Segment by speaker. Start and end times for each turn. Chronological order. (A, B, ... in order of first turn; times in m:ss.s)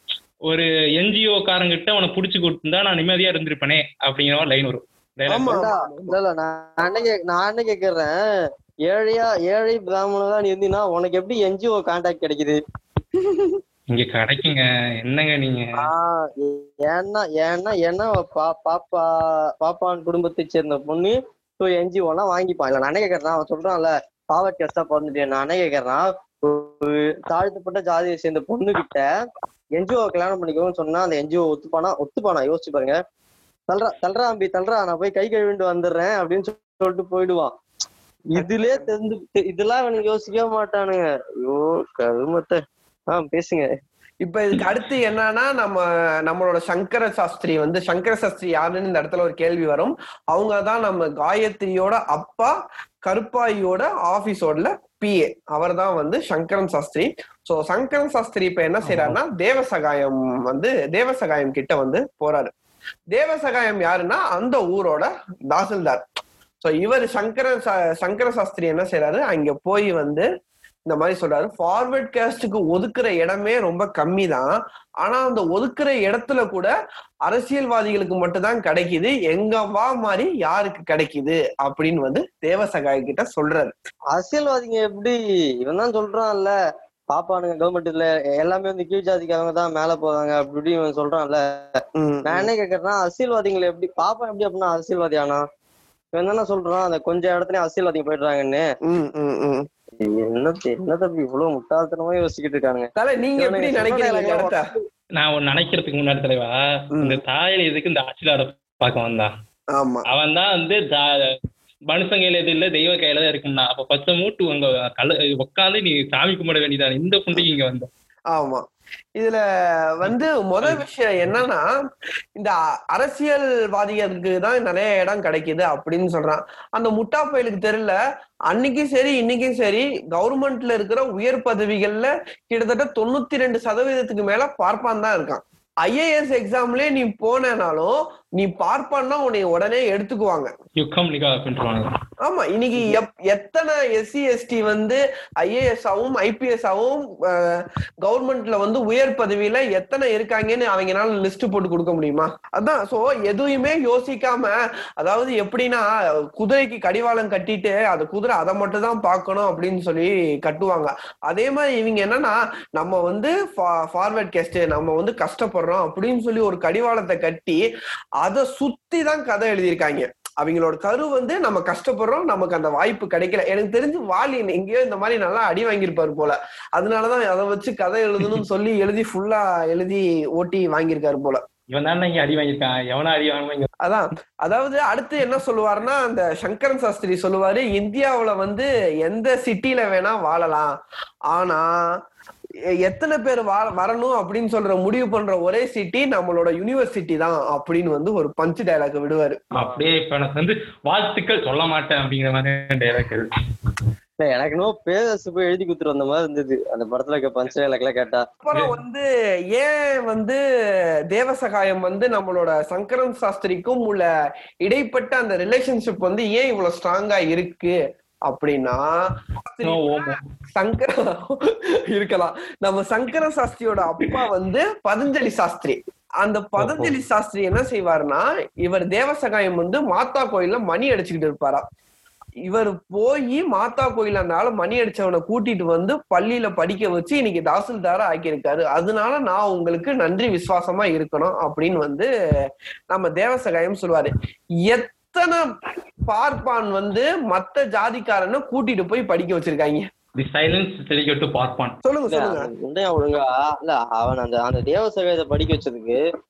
0:00.5-0:05.6 A
0:05.3-0:06.2 B
0:05.4-0:08.2 C
0:08.9-0:12.6 C
0:13.2-0:13.6 B
0:13.9-0:15.7 A
0:15.8-0:19.1 C
0:19.6-0:29.1 C
0:29.8-0:33.0 C
0:33.7-0:37.5 C
0:38.3-0:42.6 C
0:38.4-0:38.9 B
0:43.1-0:43.7 C
0:44.2-0:52.5 B
0:53.1-1:02.5 B
0:58.8-0:59.2 A
1:03.1-1:06.0 B
1:06.6-1:10.3 B
1:10.8-1:14.5 B
1:15.0-1:16.7 B
1:17.3-1:23.8 B
1:24.1-1:26.5 C
1:27.1-1:35.4 C
1:32.0-1:32.5 B
1:36.2-1:38.6 C
1:38.9-1:39.6 B
1:40.0-1:44.7 C
1:43.0-1:44.6 B
1:45.2-1:49.3 A
1:49.7-1:50.0 B
1:50.1-1:51.3 A
1:51.9-1:57.9 A
1:58.3-1:58.6 B
2:00.0-2:01.6 B
2:00.1-2:00.8 A
2:02.4-2:08.0 B
2:08.5-2:20.5 B
2:20.8-2:21.9 A
2:22.3-2:35.8 B
2:36.4-2:47.6 B
2:48.2-3:01.4 B
3:01.7-3:03.7 A
3:03.8-3:10.7 B
3:11.3-3:11.7 B
3:12.8-3:19.4 B
3:19.5-3:23.3 A
3:24.2-3:28.2 C
3:28.4-3:30.4 B
3:31.1-3:34.1 B
3:34.6-3:37.8 B
3:38.3-3:38.8 B
3:39.5-3:40.9 B
3:39.6-3:40.2 A
3:41.9-3:51.6 B
3:46.6-3:47.0 A
3:52.5-4:02.1 B
4:02.9-4:04.1 B
4:04.6-4:05.5 B
4:06.1-4:09.8 B
4:10.2-4:11.8 A
4:11.8-4:12.5 B
4:12.1-4:16.0 C